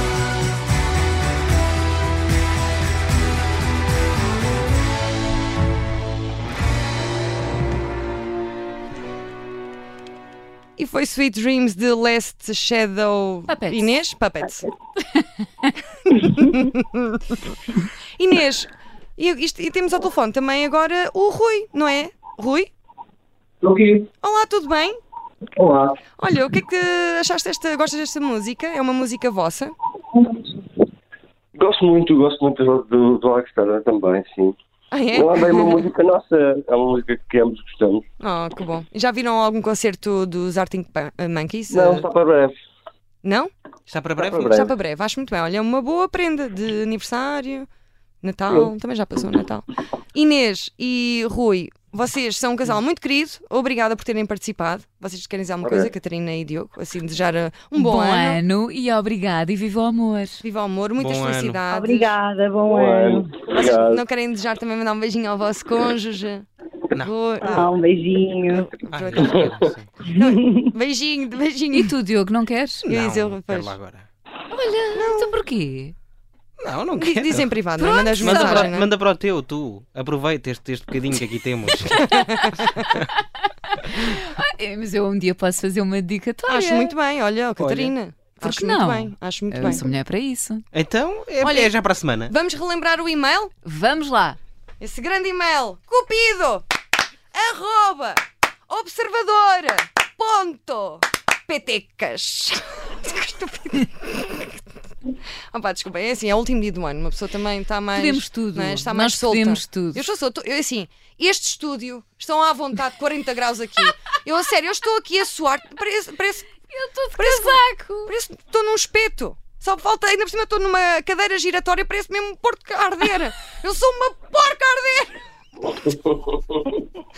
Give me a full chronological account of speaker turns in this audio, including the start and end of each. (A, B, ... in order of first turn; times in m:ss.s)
0:10.8-0:14.7 A
0:13.5-0:13.9 B
0:16.0-0:17.4 A
0:18.2-0:22.7 A
0:23.6-0:24.1 C
0:24.2-0:25.0 A
0:25.6-0:26.0 C
0:26.2-0:29.7 A
0:31.6-0:34.6 C
0:34.9-0:35.8 A
0:35.1-0:38.0 C
0:38.2-0:42.1 A
0:41.7-0:42.6 C
0:43.2-0:43.5 A
0:43.9-0:44.6 D
0:44.2-0:44.7 C
0:44.5-0:47.7 A
0:48.2-0:58.4 A
0:55.6-0:55.9 C
0:57.8-1:00.4 B
1:00.4-1:02.2 A
1:01.0-1:01.6 D
1:01.7-1:03.3 E
1:02.7-1:04.0 C
1:03.5-1:07.7 A
1:07.4-1:08.7 E
1:08.5-1:11.9 A
1:08.9-1:09.9 D
1:11.7-1:12.8 B
1:12.8-1:13.8 A
1:12.9-1:14.1 D
1:14.5-1:16.0 B
1:14.9-1:15.4 A
1:16.6-1:17.7 D
1:17.0-1:18.9 A
1:17.8-1:18.7 B
1:18.2-1:22.0 D
1:21.9-1:22.8 A
1:22.6-1:23.1 D
1:24.0-1:26.9 B
1:26.5-1:29.9 A
1:27.6-1:27.9 D
1:28.4-1:30.6 B
1:30.7-1:32.3 D
1:31.4-1:31.7 A
1:32.3-1:33.5 A
1:33.6-1:34.4 B
1:34.8-1:36.6 A
1:37.3-1:44.6 A
1:45.5-1:56.5 A
1:48.0-1:50.0 B
1:56.7-1:58.1 B
1:57.2-2:05.1 A
2:05.9-2:06.4 C